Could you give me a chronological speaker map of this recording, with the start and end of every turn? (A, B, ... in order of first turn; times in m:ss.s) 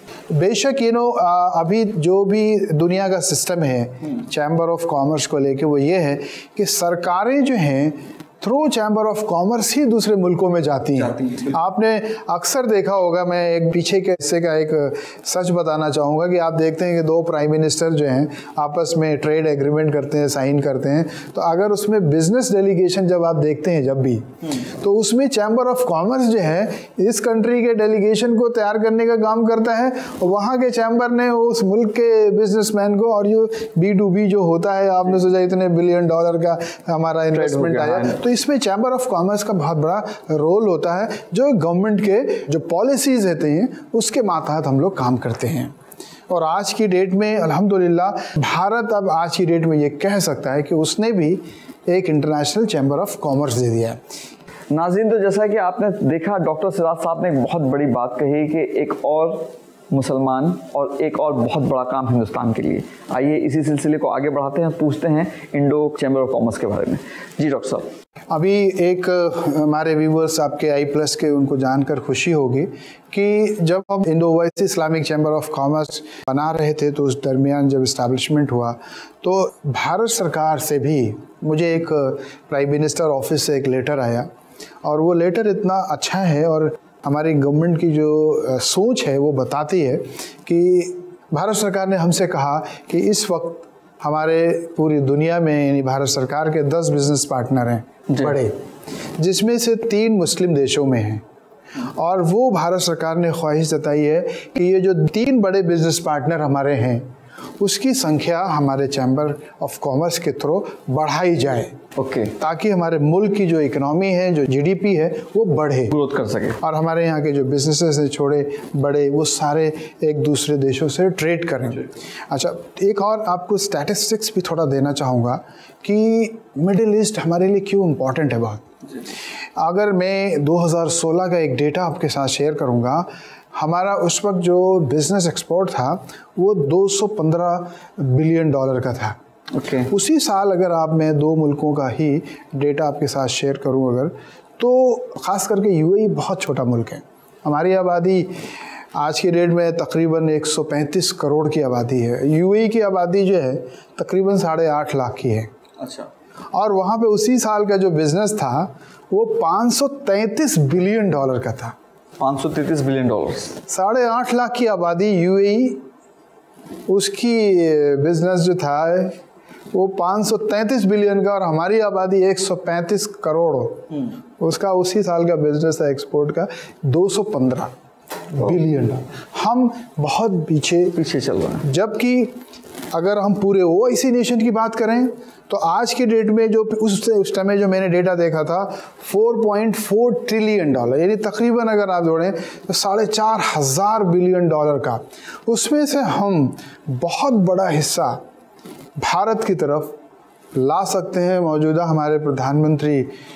0:00.3-0:45.7 A
0:11.1-0:11.5 B
0:37.3-0:38.2 B
0:46.3-0:54.0 A
0:54.7-1:07.9 B
1:08.3-1:24.3 A
1:24.8-1:38.6 A
1:39.2-1:41.2 A
1:41.8-1:47.0 A
1:47.6-1:51.7 A
1:52.0-1:52.4 B
1:52.4-1:55.9 A
1:55.9-1:56.6 B
1:56.6-2:08.6 A
2:09.6-2:19.2 A
2:19.5-2:19.9 B
2:19.9-2:28.3 A
2:28.9-2:35.5 A
2:35.8-2:36.1 B
2:36.5-2:41.7 A
2:42.2-2:43.6 B
2:43.7-2:45.8 A
2:46.9-2:49.2 A
2:49.7-2:57.7 A
2:58.3-3:01.0 A
3:01.0-3:01.7 B
3:01.6-3:02.3 A
3:02.9-3:18.2 A
3:19.0-3:20.0 A
3:20.5-3:23.1 A